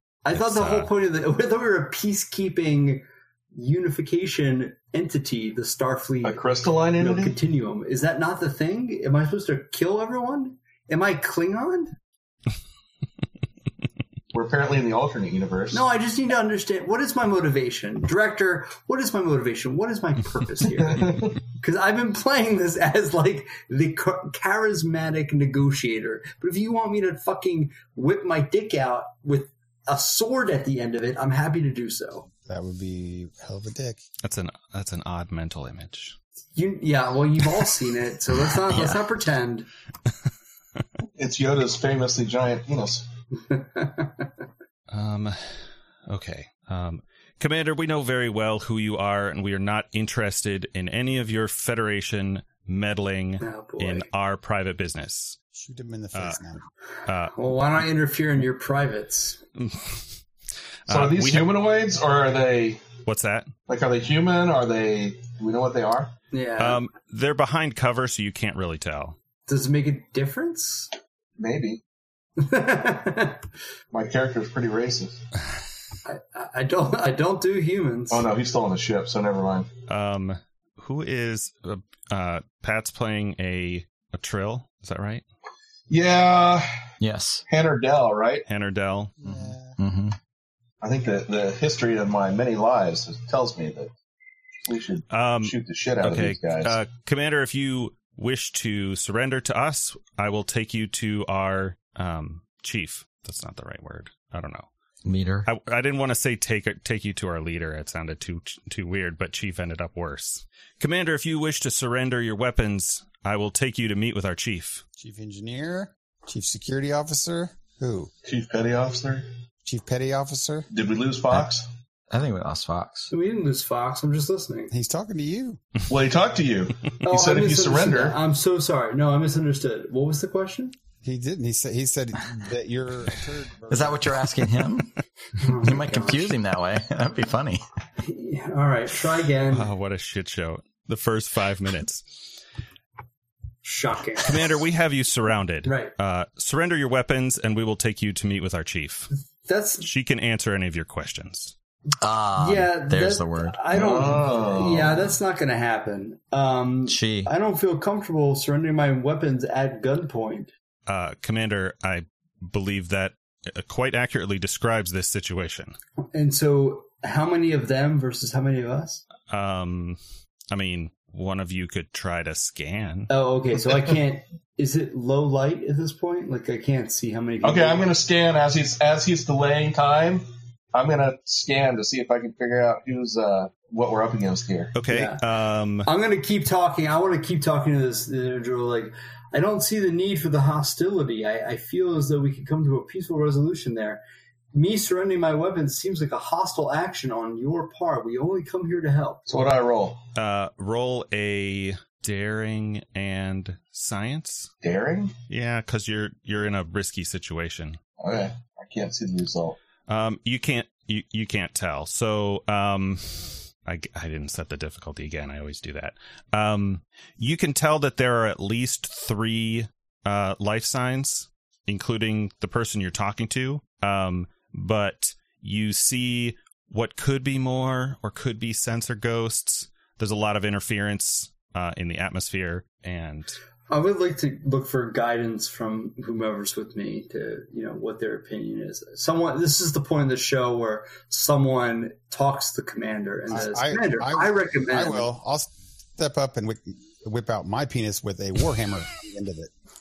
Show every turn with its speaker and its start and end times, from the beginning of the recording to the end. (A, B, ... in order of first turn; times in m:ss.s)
0:00.2-0:06.4 A
0:00.3-0:00.9 B
0:06.2-0:07.4 C
0:07.0-0:11.9 A
0:14.3-0:15.8 C
0:15.7-0:32.3 A
0:20.8-0:21.3 C
0:32.4-0:34.0 D
0:34.2-0:36.2 B
0:36.6-0:39.7 A
0:38.6-0:39.1 E
0:41.2-0:43.1 C
0:43.4-0:44.3 A
0:44.9-0:55.4 B
0:53.4-0:54.1 A
0:55.5-0:56.7 D
0:56.1-0:56.4 B
0:57.1-0:57.3 B
0:57.3-0:59.4 A
0:59.6-1:00.1 B
1:00.9-1:01.5 B
1:00.9-1:02.8 C
1:03.1-1:03.5 B
1:03.7-1:06.1 C
1:06.3-1:06.8 A
1:06.6-1:09.2 B
1:09.5-1:10.9 A
1:11.4-1:11.8 C
1:12.4-1:13.4 A
1:13.9-1:15.2 C
1:16.1-1:18.3 A
1:18.1-1:19.7 C
1:19.9-1:25.2 B
1:25.9-1:26.7 C
1:27.0-1:27.4 E
1:27.5-1:28.4 C
1:28.5-1:29.1 B
1:29.2-1:29.8 D
1:29.2-1:30.2 E
1:30.8-1:33.9 C
1:34.7-1:36.8 C
1:35.1-1:44.7 B
1:45.0-1:45.5 E
1:45.5-1:54.8 B
1:55.0-1:58.1 D
1:58.3-1:59.3 C
1:59.6-2:00.7 D
2:00.7-2:01.7 C
2:02.1-2:03.1 E
2:03.1-2:04.7 A
2:04.7-2:05.6 D
2:05.9-2:08.2 C
2:07.0-2:10.8 A
2:11.0-2:14.1 D
2:13.7-2:17.6 E
2:15.4-2:16.3 A
2:18.0-2:19.7 A
2:19.5-2:22.4 B
2:23.6-2:24.6 A
2:24.2-2:29.1 B
2:25.7-2:25.9 A
2:29.5-2:29.9 A
2:29.8-2:31.6 B
2:32.0-2:33.6 E
2:32.4-2:40.5 A
2:33.7-2:35.2 C
2:36.9-2:37.3 E
2:40.9-2:45.8 B
2:46.1-2:49.0 A
2:49.3-2:50.0 B
2:50.5-2:53.1 B
2:53.1-2:57.8 A
2:57.4-3:04.8 C
3:04.8-3:05.9 B
3:04.9-3:05.2 A
3:05.9-3:14.0 A
3:14.5-3:19.3 A
3:19.3-3:20.0 C
3:20.2-3:24.5 B
3:24.6-3:25.1 C
3:25.3-3:27.8 B
3:28.0-3:29.6 C
3:29.9-3:53.4 B
3:53.7-4:05.1 A
4:03.3-4:09.5 D